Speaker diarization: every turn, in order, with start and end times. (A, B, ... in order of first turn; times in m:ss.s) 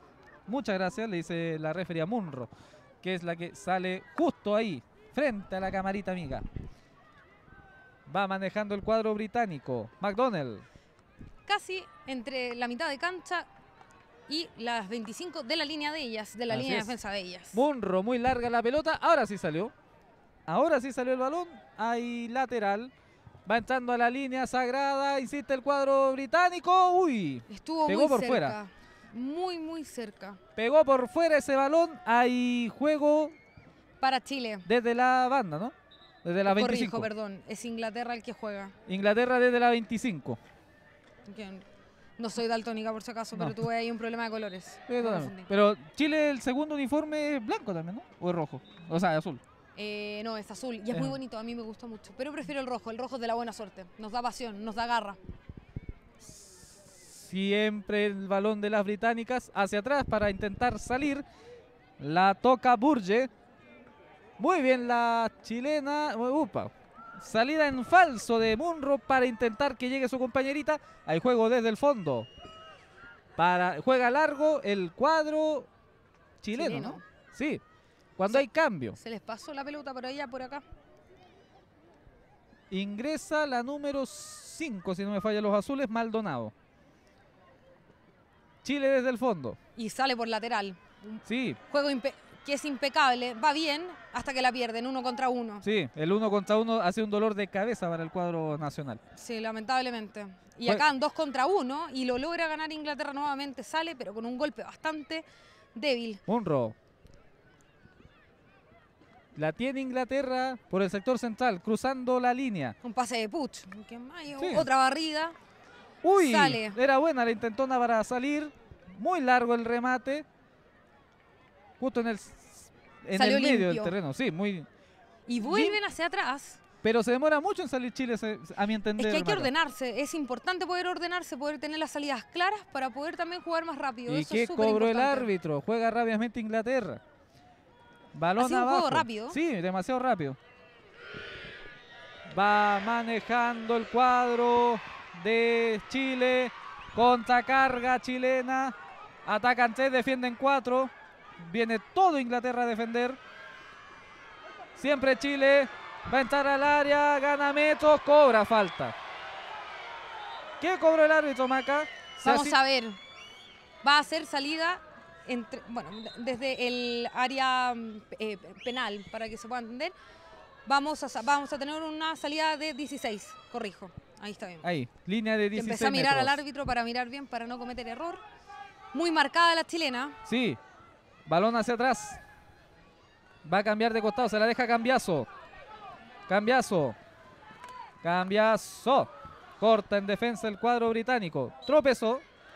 0:00.5-0:02.5 A
0:03.0-0:06.4 A
0:08.1-0:10.6 A
0:11.5-0:13.5 B
0:14.3-0:17.6 B
0:16.5-0:17.0 A
0:17.5-0:19.7 A
0:20.5-0:22.9 A
0:23.5-0:28.6 A
0:27.5-0:30.4 B
0:30.6-0:33.4 A
0:34.0-0:34.7 B
0:34.7-0:37.1 A
0:36.5-0:38.7 B
0:38.9-0:40.4 A
0:41.3-0:41.6 B
0:42.2-0:45.5 B
0:43.4-0:43.6 A
0:44.9-0:49.4 A
0:49.8-0:55.2 B
0:50.9-0:51.2 A
0:56.2-1:01.2 A
1:02.0-1:03.3 A
1:04.4-1:12.3 A
1:13.4-1:15.7 A
1:16.4-1:17.6 A
1:16.5-1:17.0 B
1:18.2-1:19.0 A
1:18.3-1:20.6 B
1:22.7-1:26.5 A
1:28.6-1:29.6 A
1:29.8-1:35.6 B
1:31.3-1:31.6 A
1:35.6-1:39.0 A
1:39.2-1:46.2 B
1:46.3-1:46.8 A
1:49.4-1:52.8 A
1:52.8-1:55.4 B
1:54.4-1:54.7 A
1:56.0-2:00.3 A
1:56.2-1:56.8 B
2:01.8-2:04.7 A
2:03.1-2:03.9 B
2:05.3-2:06.6 B
2:05.4-2:05.8 A
2:06.8-2:09.5 A
2:09.0-2:15.3 B
2:14.1-2:17.0 A
2:18.1-2:20.4 A
2:18.4-2:19.4 B
2:22.3-2:33.2 A
2:34.8-2:39.0 A
2:40.6-2:42.6 A
2:42.2-2:43.0 B
2:43.8-2:50.0 B
2:50.7-2:54.7 B
2:54.6-2:56.4 A
2:55.5-2:58.2 B
2:58.9-3:00.2 B
3:00.3-3:00.6 A
3:01.3-3:02.2 A
3:03.4-3:05.3 A
3:06.3-3:07.0 A
3:08.0-3:12.2 A